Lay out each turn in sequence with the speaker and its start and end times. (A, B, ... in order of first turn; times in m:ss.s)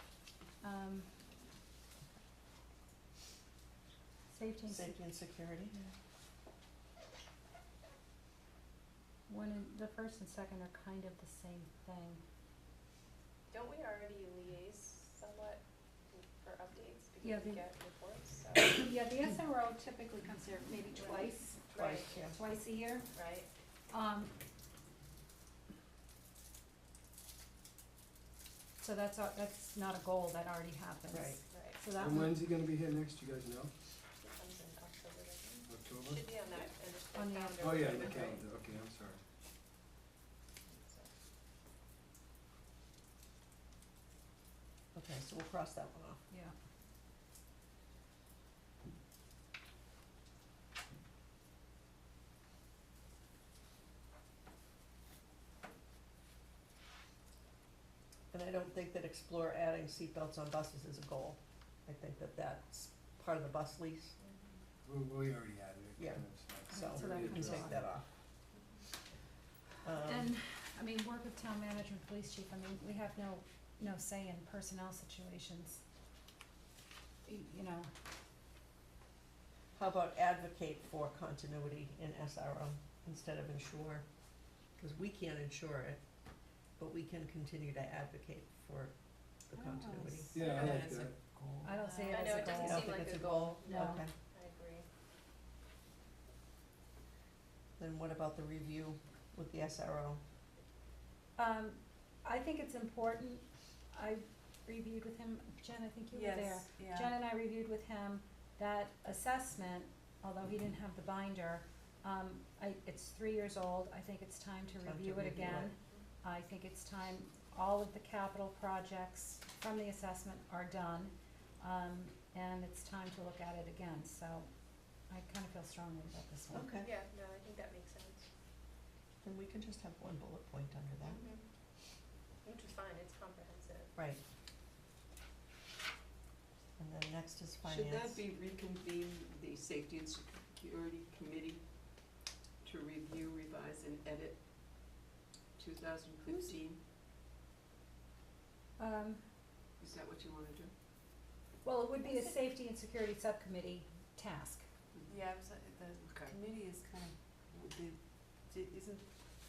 0:00.6-0:01.1 A
0:04.3-0:04.9 A
0:04.7-0:05.8 B
0:09.3-0:12.2 A
0:13.5-0:18.8 C
0:17.2-0:17.7 A
0:18.5-0:23.1 A
0:20.9-0:22.2 C
0:21.7-0:22.4 B
0:23.1-0:23.5 C
0:23.9-0:24.3 A
0:28.8-0:32.4 A
0:31.1-0:31.4 B
0:31.5-0:31.8 C
0:32.0-0:33.7 D
0:34.2-0:38.4 C
0:35.7-0:36.3 D
0:37.1-0:37.8 A
0:37.6-0:39.2 D
0:40.7-0:41.1 C
0:44.9-0:46.2 B
0:58.3-1:04.1 B
1:04.8-1:07.8 D
1:06.0-1:08.0 B
1:06.7-1:07.8 A
1:09.8-1:10.3 B
1:10.0-1:15.8 A
1:17.2-1:17.9 A
1:19.7-1:24.0 B
1:24.8-1:26.0 B
1:26.8-1:28.9 B
1:29.4-1:30.8 B
1:29.6-1:32.6 E
1:30.3-1:31.1 D
1:31.6-1:32.9 A
1:32.1-1:34.8 C
1:32.2-1:32.9 F
1:32.5-1:34.1 B
1:33.6-1:34.1 A
1:37.8-1:40.2 B
1:41.4-2:04.5 A
1:46.1-1:47.1 E
1:54.8-1:55.7 B
2:05.1-2:06.7 A
2:06.5-2:06.9 B
2:06.8-2:08.2 C
2:09.2-2:11.2 B
2:11.0-2:11.4 C
2:12.4-2:13.9 C
2:16.8-2:18.2 B
2:17.6-2:21.6 F
2:22.6-2:24.4 F
2:25.6-2:26.8 F
2:28.8-2:29.2 A
2:29.8-2:30.7 F
2:31.6-2:34.6 A
2:35.1-2:39.0 E
2:36.0-2:36.4 F